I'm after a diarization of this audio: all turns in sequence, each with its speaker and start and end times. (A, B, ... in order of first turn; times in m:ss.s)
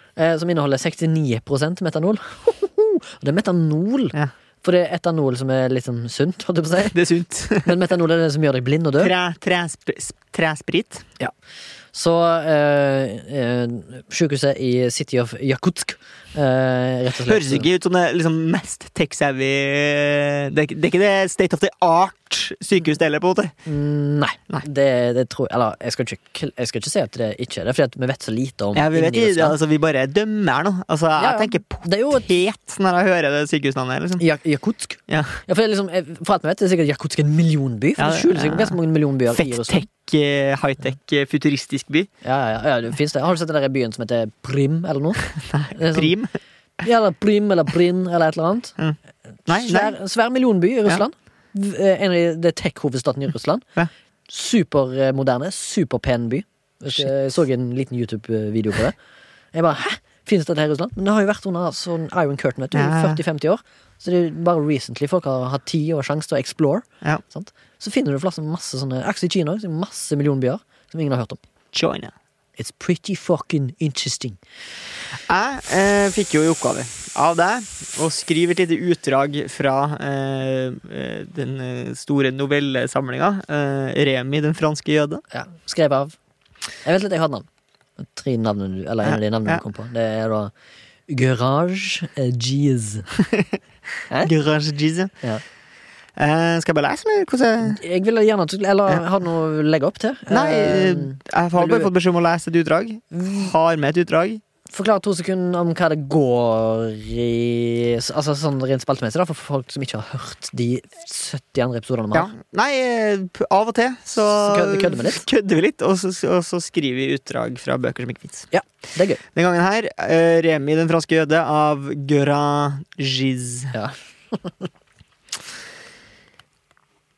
0:00.2-0:07.0 A
0:06.9-0:07.7 B
0:07.6-0:09.1 A
0:09.0-0:11.3 B
0:11.9-0:17.7 A
0:17.2-0:23.5 B
0:23.6-0:29.6 A
0:28.7-0:34.2 B
0:31.2-0:32.3 A
0:34.2-0:39.9 A
0:35.1-0:35.4 B
0:38.0-0:38.8 B
0:39.3-0:42.1 B
0:42.2-0:46.2 A
0:45.4-0:46.3 B
0:46.8-0:48.8 A
0:49.5-0:49.9 B
0:49.5-0:53.6 A
0:54.3-0:59.0 A
0:59.5-1:11.4 A
1:02.7-1:03.2 B
1:11.7-1:12.1 B
1:12.6-1:14.4 A
1:15.3-1:25.2 B
1:25.3-1:26.2 A
1:26.8-1:27.5 A
1:28.0-1:30.5 A
1:29.0-1:29.6 B
1:31.1-1:33.1 A
1:34.2-1:35.1 B
1:36.2-1:37.8 B
1:37.6-1:41.9 A
1:40.3-1:44.4 B
1:43.1-1:43.5 A
1:44.7-1:52.3 A
1:52.1-1:58.5 B
1:54.2-1:55.2 A
1:58.5-1:59.2 A
1:59.3-2:03.7 B
2:03.7-2:04.7 A